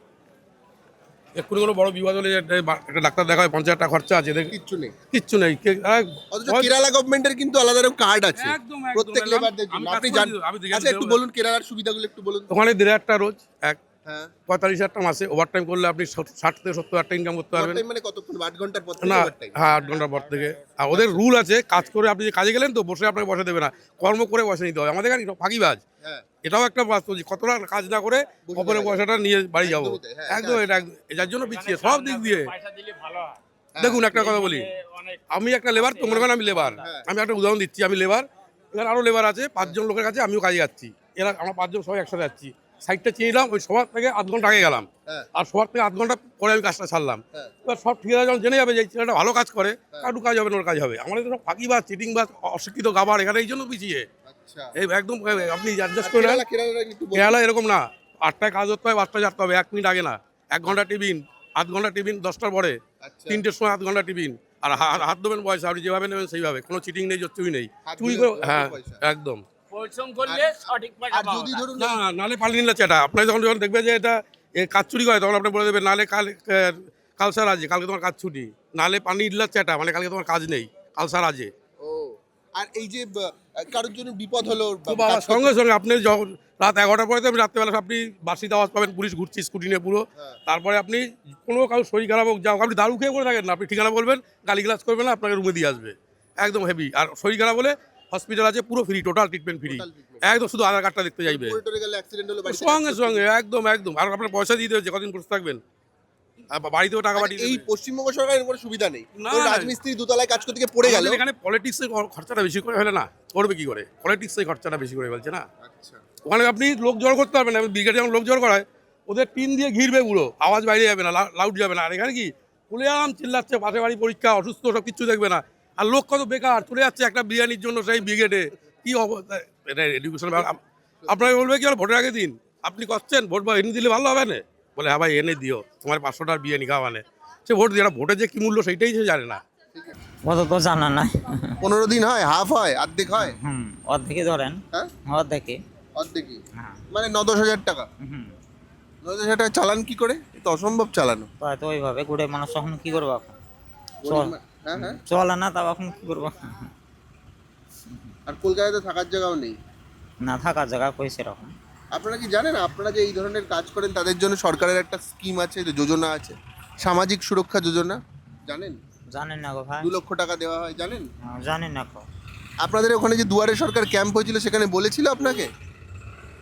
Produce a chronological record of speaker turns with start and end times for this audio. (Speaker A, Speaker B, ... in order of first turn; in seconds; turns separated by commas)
Speaker A: 1.4-4.5, Speaker B: 4.5-5.0, Speaker A: 5.1-6.7, Speaker B: 6.3-12.5, Speaker A: 8.4-11.2, Speaker A: 12.5-13.8, Speaker B: 14.1-14.3, Speaker A: 14.5-17.8, Speaker B: 17.6-19.9, Speaker A: 19.0-25.8, Speaker B: 20.9-21.2, Speaker B: 26.0-26.3, Speaker A: 26.4-32.6, Speaker B: 28.5-29.1, Speaker B: 29.6-30.6, Speaker B: 33.8-34.4, Speaker A: 33.8-54.1, Speaker B: 36.0-37.1, Speaker B: 54.3-54.7, Speaker A: 54.8-56.4, Speaker B: 56.0-57.4, Speaker A: 57.2-62.8, Speaker B: 63.0-63.4, Speaker A: 63.3-81.5, Speaker B: 67.8-69.0, Speaker B: 70.2-72.0, Speaker B: 81.8-85.5, Speaker A: 84.9-101.6, Speaker B: 99.6-100.2, Speaker B: 101.2-103.2, Speaker A: 102.5-105.6, Speaker A: 106.5-107.7, Speaker B: 107.2-111.2, Speaker A: 109.2-109.8, Speaker A: 110.8-115.5, Speaker B: 115.6-116.0, Speaker A: 116.2-139.4, Speaker B: 131.1-131.4, Speaker C: 140.2-141.5, Speaker B: 141.6-143.4, Speaker C: 143.1-145.6, Speaker B: 146.0-146.4, Speaker B: 146.9-147.9, Speaker C: 148.0-148.3, Speaker B: 149.0-151.3, Speaker C: 151.4-153.3, Speaker B: 154.0-155.0, Speaker C: 154.1-156.7, Speaker B: 158.3-159.6, Speaker C: 160.2-161.5, Speaker B: 161.9-168.8, Speaker C: 169.1-169.9, Speaker B: 169.8-171.1, Speaker C: 171.3-172.1, Speaker B: 172.6-175.5